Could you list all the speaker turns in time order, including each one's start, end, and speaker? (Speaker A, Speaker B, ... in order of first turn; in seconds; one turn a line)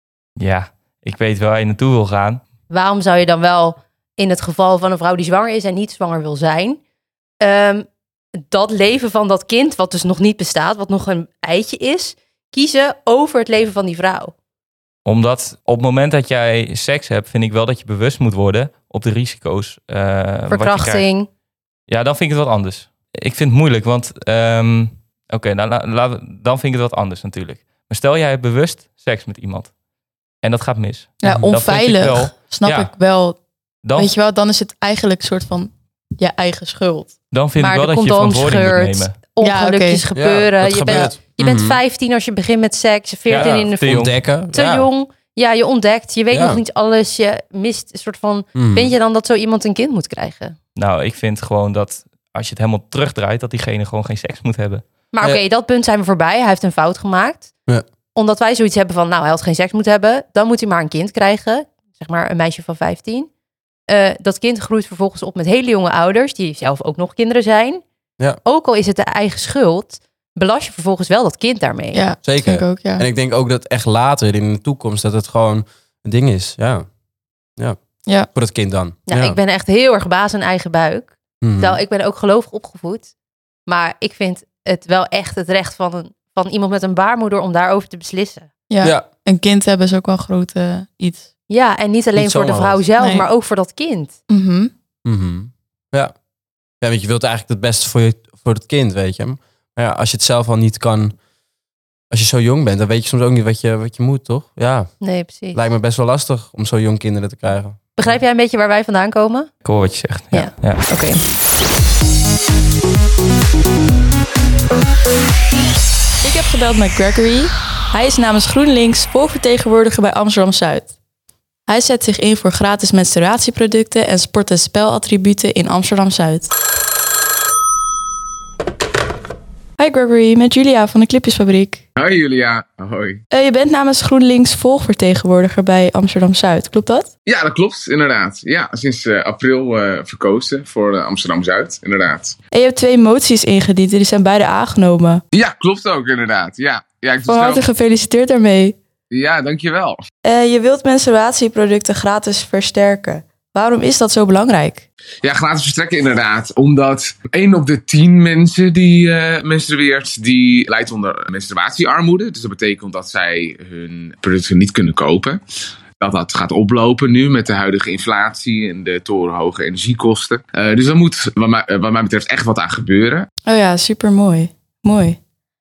Speaker A: 0.4-2.4
Speaker B: 2.7-6.8
Speaker B: 7.4-7.9
Speaker B: 8.4-14.3
Speaker A: 15.0-21.1
Speaker B: 20.5-21.3
Speaker A: 21.9-29.7
Speaker A: 30.4-32.9
Speaker C: 31.2-33.4
Speaker A: 33.8-34.1
Speaker C: 34.0-37.1
Speaker A: 37.3-39.1
Speaker B: 37.6-50.6
Speaker C: 39.4-40.0
Speaker D: 40.1-41.8
Speaker A: 43.2-44.2
Speaker D: 43.4-44.9
Speaker D: 46.3-46.6
Speaker D: 48.5-48.9
Speaker A: 50.8-54.8
Speaker B: 55.1-57.5
Speaker B: 58.1-63.3
Speaker B: 63.9-67.8
Speaker B: 68.4-72.0
Speaker C: 71.9-73.0
Speaker D: 72.2-76.8
Speaker D: 78.3-79.4
Speaker B: 79.1-83.1
Speaker D: 81.4-81.8
Speaker B: 83.7-88.5
Speaker C: 88.7-91.3
Speaker B: 91.5-94.2
Speaker D: 92.1-92.8
Speaker C: 93.0-93.3
Speaker C: 94.3-94.7
Speaker D: 95.0-96.1
Speaker D: 96.8-101.2
Speaker D: 102.1-108.2
Speaker B: 105.0-105.6
Speaker B: 108.0-109.5
Speaker A: 109.6-110.8
Speaker B: 110.3-111.2
Speaker C: 116.2-120.9
Speaker C: 121.7-126.5
Speaker C: 129.8-131.8
Speaker E: 132.0-133.2
Speaker C: 133.3-137.1
Speaker E: 137.2-142.3
Speaker C: 142.5-145.2
Speaker E: 145.3-147.7
Speaker C: 147.2-148.8
Speaker E: 149.1-150.0
Speaker C: 150.2-154.8
Speaker E: 155.2-165.4
Speaker E: 166.0-173.3
Speaker C: 173.5-175.2